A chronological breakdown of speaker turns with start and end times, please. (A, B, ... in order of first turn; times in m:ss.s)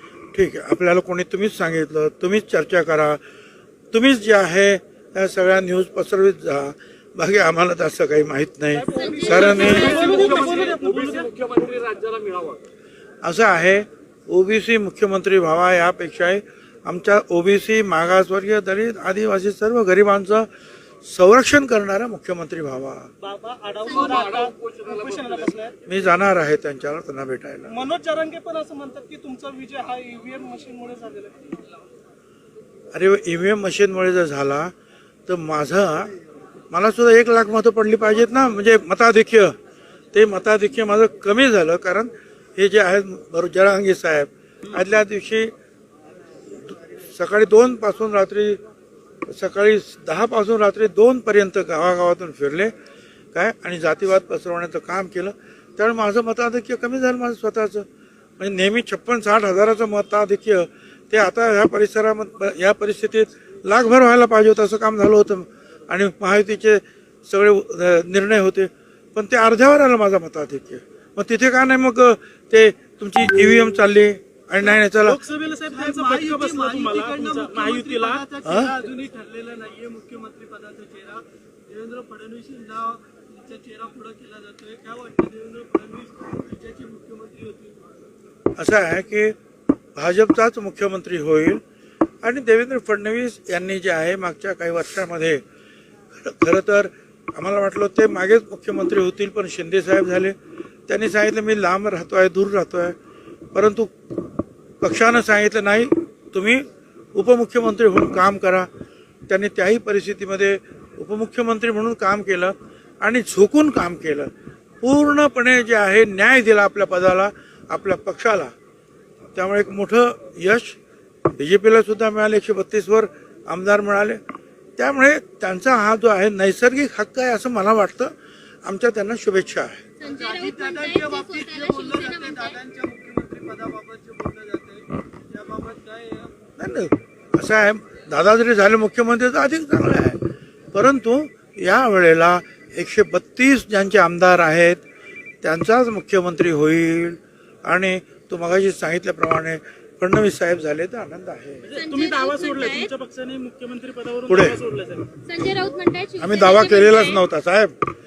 0:00.3-0:03.2 A
0:03.9-0:10.1 A
0:08.8-0:11.3 B
0:08.9-0:10.4 C
0:13.2-0:20.5 A
0:21.0-0:23.1 A
0:23.2-0:25.7 B
0:25.8-0:27.7 A
0:27.7-0:31.6 B
0:32.9-0:34.7 A
0:35.3-0:36.1 A
0:36.7-0:39.5 A
0:40.1-0:45.5 A
0:46.5-0:48.6 A
0:49.3-0:52.7 A
0:53.3-0:57.8 A
0:58.4-1:15.2 A
1:14.6-1:19.0 B
1:15.6-1:27.7 D
1:18.4-1:18.7 A
1:23.5-1:24.1 B
1:24.7-1:26.1 B
1:28.6-1:29.3 A
1:30.0-1:31.6 A
1:32.2-1:35.4 A
1:36.2-1:40.4 A
1:40.9-1:43.0 A
1:43.5-1:43.9 A
1:44.8-1:48.7 A
1:49.3-1:54.3 A
1:54.8-1:58.5 A
1:59.3-2:00.8 A
2:01.3-2:04.2 A
2:04.8-2:08.1 A
2:08.6-2:09.8 A
2:10.0-2:12.6 C
2:10.1-2:16.3 D
2:16.6-2:24.8 A
2:25.4-2:31.6 A
2:31.6-2:35.1 B
2:31.7-2:32.9 C
2:34.3-2:34.6 A
2:35.2-2:37.2 C
2:36.2-2:37.7 A